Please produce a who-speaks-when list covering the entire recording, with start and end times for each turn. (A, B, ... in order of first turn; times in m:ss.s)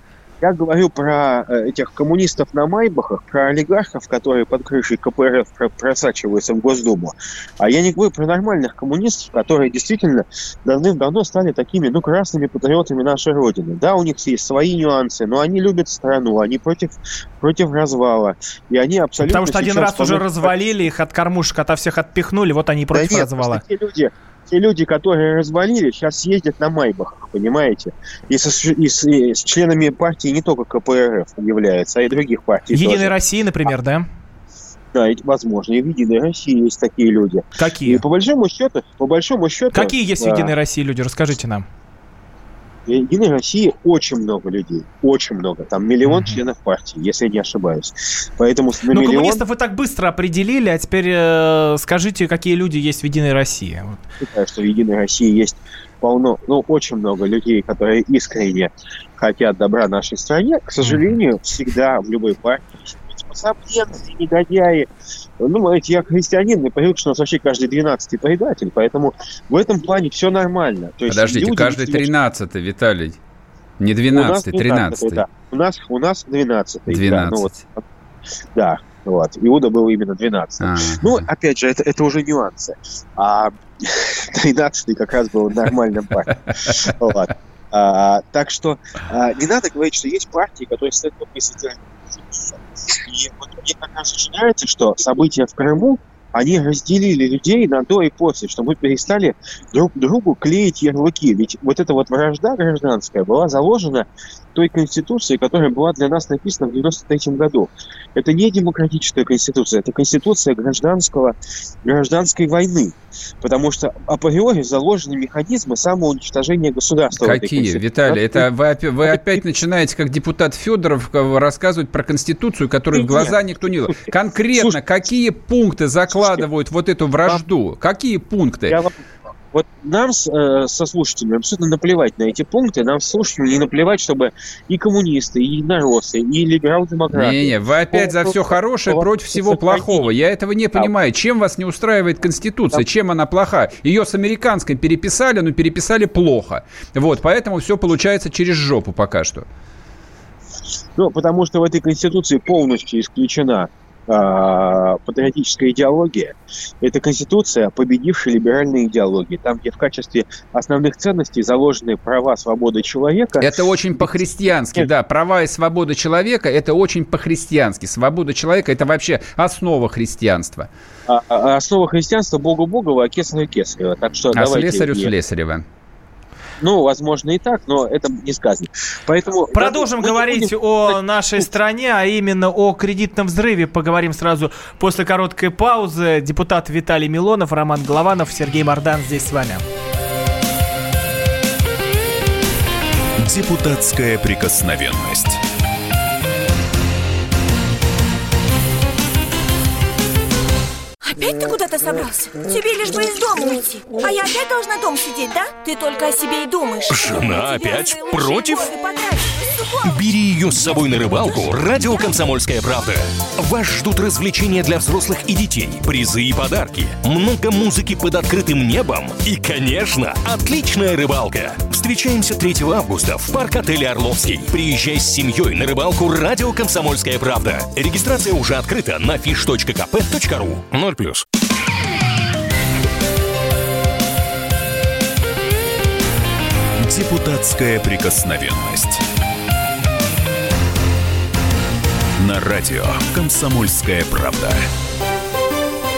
0:00.4-0:20.6 A
0:19.2-0:23.6 B
0:22.9-0:33.2 A
0:32.7-0:34.1 B
0:34.9-0:40.5 A
0:37.6-0:38.0 B
0:39.7-0:41.6 B
0:42.8-0:49.4 A
0:46.0-0:46.4 B
0:48.9-0:54.0 B
0:54.2-1:04.9 A
1:00.8-1:01.2 B
1:05.4-1:12.1 A
1:11.1-1:13.2 C
1:13.8-1:15.2 C
1:14.1-1:17.8 A
1:16.9-1:17.6 C
1:18.5-1:58.5 A
1:20.6-1:21.2 C
1:57.2-2:08.8 C
1:59.1-1:59.4 A
2:02.9-2:04.8 A
2:06.1-2:06.4 A
2:08.7-2:20.1 A
2:17.1-2:29.4 C
2:31.0-2:44.9 A
2:43.4-2:50.7 C
2:51.1-2:55.1 A
2:54.3-2:55.6 C
2:56.6-3:01.5 A
2:59.5-3:09.6 B
3:13.2-3:15.4 D
3:21.0-3:29.8 E
3:26.9-3:28.7 F
3:29.8-3:51.2 F
3:56.8-3:59.0 D
4:02.2-4:04.6 D